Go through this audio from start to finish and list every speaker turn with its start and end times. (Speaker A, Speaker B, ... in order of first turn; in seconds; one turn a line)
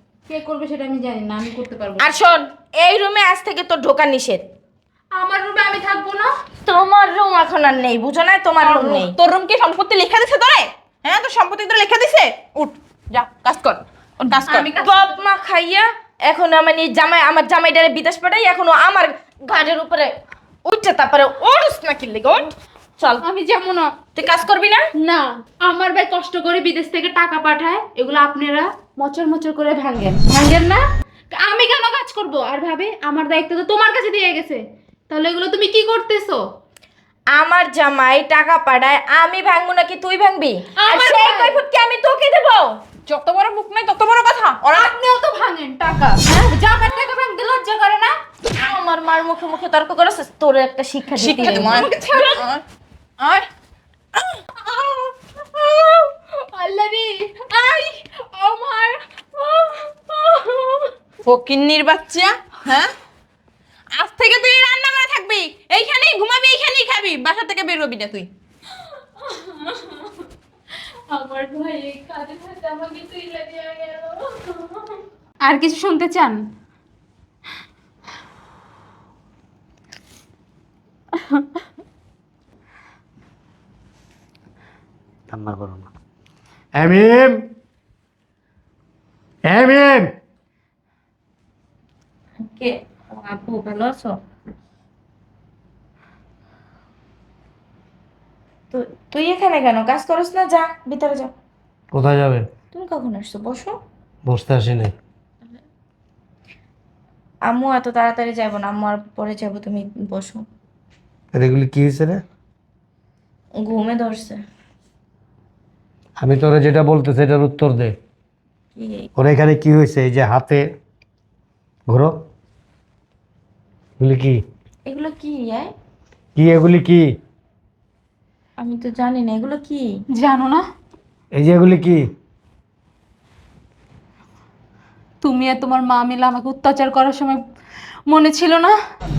Speaker A: 0.3-2.1
Speaker B: 2.0-4.4
Speaker A: 5.1-6.3
Speaker B: 6.6-9.1
Speaker C: 8.6-14.8
Speaker A: 14.5-15.0
Speaker B: 14.5-20.1
Speaker B: 20.6-23.2
Speaker A: 23.2-23.9
Speaker B: 24.1-24.8
Speaker A: 25.0-36.4
Speaker B: 37.3-42.8
Speaker A: 40.8-41.6
Speaker C: 43.1-44.9
Speaker A: 44.7-48.1
Speaker B: 48.6-51.9
Speaker C: 51.1-52.6
Speaker A: 51.5-52.4
Speaker C: 53.2-53.5
Speaker A: 54.6-60.9
Speaker C: 61.2-62.9
Speaker C: 63.9-68.3
Speaker A: 69.0-70.2
Speaker A: 71.1-76.4
Speaker D: 85.3-85.9
Speaker D: 86.8-87.5
Speaker D: 89.5-90.1
Speaker B: 92.4-94.1
Speaker B: 98.7-101.3
Speaker D: 101.9-102.4
Speaker B: 102.7-103.8
Speaker D: 104.3-104.9
Speaker B: 107.4-110.4
Speaker D: 111.3-112.2
Speaker B: 113.6-114.4
Speaker D: 116.2-117.9
Speaker B: 118.8-119.1
Speaker D: 119.2-120.6
Speaker D: 121.9-122.1
Speaker D: 124.0-124.4
Speaker B: 124.8-125.7
Speaker D: 126.3-127.1
Speaker B: 128.6-129.9
Speaker A: 130.1-130.6
Speaker D: 131.3-132.0
Speaker A: 135.2-137.4
Speaker A: 138.1-138.7